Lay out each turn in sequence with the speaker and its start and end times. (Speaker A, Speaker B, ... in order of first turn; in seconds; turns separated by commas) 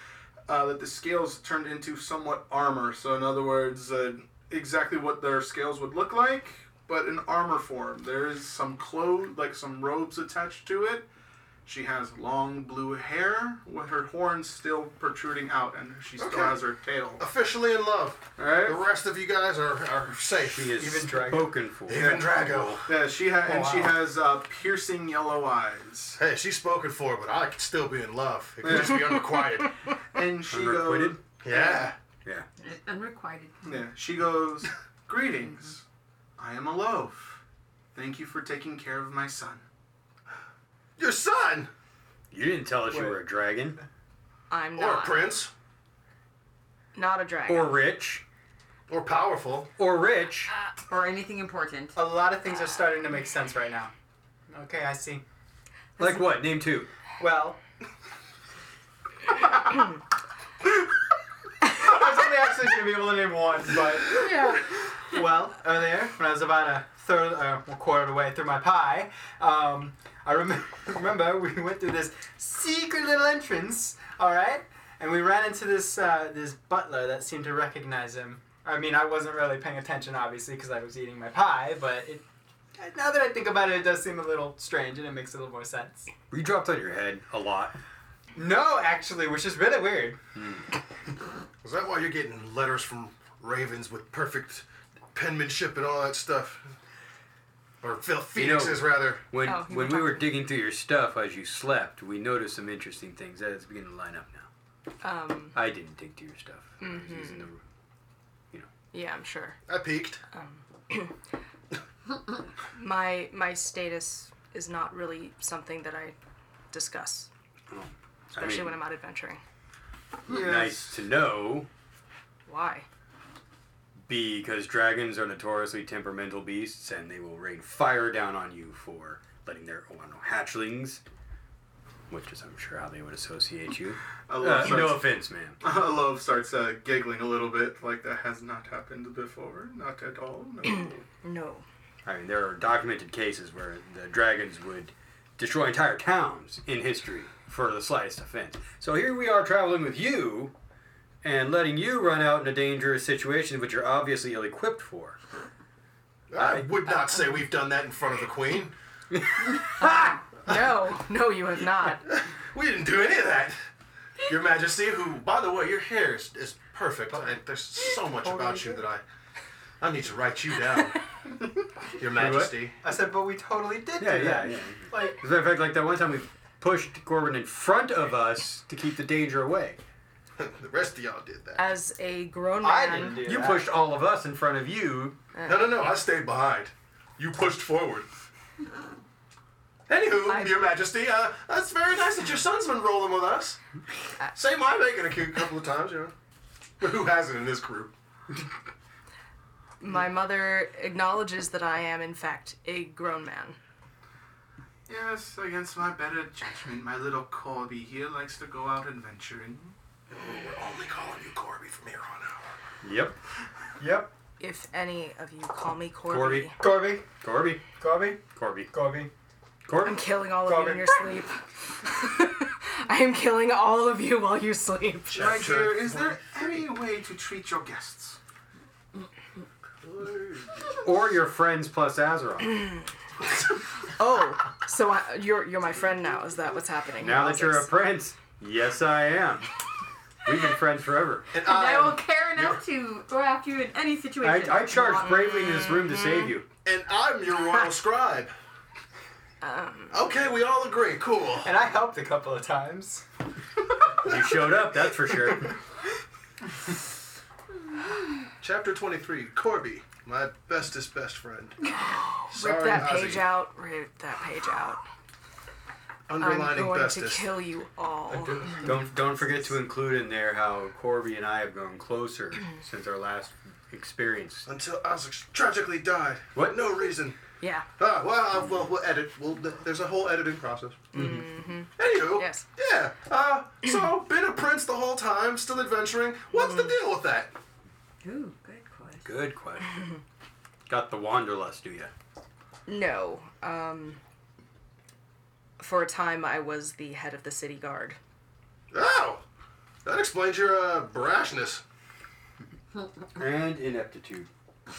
Speaker A: 0.5-11.1, Speaker A: 11.6-17.2, Speaker B: 16.2-16.6, Speaker B: 17.2-21.0, Speaker A: 18.4-18.8, Speaker C: 20.5-22.8, Speaker D: 20.7-21.7, Speaker B: 21.9-22.9, Speaker A: 22.9-26.2, Speaker D: 23.4-23.9, Speaker B: 26.2-29.7, Speaker A: 28.6-29.2, Speaker A: 30.1-31.2, Speaker C: 30.5-31.2, Speaker B: 31.4-31.9, Speaker E: 31.5-31.8, Speaker E: 32.6-33.8, Speaker A: 33.6-35.8, Speaker A: 36.4-37.4, Speaker A: 37.9-39.6, Speaker B: 41.0-41.7, Speaker C: 42.3-43.8, Speaker D: 42.9-43.2, Speaker F: 44.5-45.3, Speaker B: 44.8-45.5, Speaker F: 46.9-47.8, Speaker C: 47.5-48.2, Speaker B: 48.9-49.7, Speaker C: 49.8-50.5, Speaker E: 50.9-52.0, Speaker D: 52.0-53.9, Speaker D: 54.5-55.2, Speaker C: 56.0-56.9, Speaker D: 57.2-57.6, Speaker D: 61.7-82.2, Speaker F: 64.2-64.6, Speaker D: 82.8-86.1, Speaker C: 86.3-87.8, Speaker D: 88.3-90.2, Speaker C: 90.3-90.7, Speaker B: 91.6-96.7, Speaker B: 97.8-99.2, Speaker C: 98.3-104.5, Speaker F: 99.4-100.3, Speaker F: 105.0-105.5, Speaker C: 105.5-107.6, Speaker F: 106.8-107.5, Speaker F: 108.9-109.6, Speaker B: 109.7-110.2, Speaker F: 110.3-111.1, Speaker F: 112.7-116.1, Speaker F: 116.7-117.3, Speaker C: 117.7-118.8, Speaker F: 118.3-119.4, Speaker A: 120.3-121.0, Speaker C: 120.3-121.7, Speaker F: 122.5-122.8, Speaker C: 124.1-131.0, Speaker C: 132.1-135.6, Speaker A: 134.3-141.0, Speaker F: 140.7-141.6, Speaker C: 142.0-150.5, Speaker C: 151.2-155.2, Speaker B: 156.3-158.7, Speaker C: 159.2-160.1, Speaker F: 160.4-162.0, Speaker B: 162.1-163.6, Speaker B: 164.2-169.0, Speaker D: 168.2-168.6, Speaker B: 169.8-171.0, Speaker B: 171.9-172.7, Speaker A: 172.2-172.4, Speaker D: 172.8-175.2, Speaker C: 174.0-179.8, Speaker B: 180.4-181.7, Speaker F: 181.6-183.2, Speaker D: 182.6-183.7, Speaker C: 183.1-185.2, Speaker F: 185.3-185.7, Speaker B: 185.4-188.1, Speaker B: 189.9-193.6, Speaker F: 190.3-190.7, Speaker B: 194.3-196.1, Speaker B: 196.8-197.9, Speaker F: 199.8-203.6, Speaker A: 204.9-209.7, Speaker B: 210.1-212.5, Speaker C: 212.8-213.1, Speaker D: 213.8-214.1, Speaker F: 214.4-216.5, Speaker C: 216.1-218.8, Speaker D: 216.6-219.1, Speaker C: 219.7-220.0, Speaker F: 219.8-225.2, Speaker D: 220.4-221.1, Speaker B: 225.1-226.6, Speaker A: 225.1-228.2, Speaker B: 229.8-230.7, Speaker C: 230.8-232.7, Speaker F: 234.0-237.7, Speaker C: 237.0-239.5, Speaker C: 240.2-241.3, Speaker B: 241.3-242.6, Speaker E: 241.3-245.4, Speaker C: 244.2-246.5, Speaker F: 245.1-246.3, Speaker B: 246.6-248.3, Speaker F: 249.4-249.9, Speaker B: 249.9-251.5, Speaker D: 251.4-253.0, Speaker C: 254.0-255.6, Speaker B: 258.4-261.7, Speaker F: 262.0-264.8, Speaker B: 262.3-263.3, Speaker B: 266.1-267.3, Speaker F: 266.2-268.6, Speaker C: 268.4-274.5, Speaker B: 274.5-277.2, Speaker C: 276.3-276.7, Speaker F: 277.4-277.7, Speaker B: 277.8-281.1, Speaker F: 280.9-282.4, Speaker C: 280.9-281.2, Speaker B: 281.8-287.3, Speaker E: 288.0-289.1, Speaker C: 289.0-289.9, Speaker C: 290.7-291.9, Speaker F: 292.7-294.0, Speaker F: 295.6-298.0, Speaker B: 298.7-299.2, Speaker B: 299.8-301.6, Speaker C: 303.1-304.3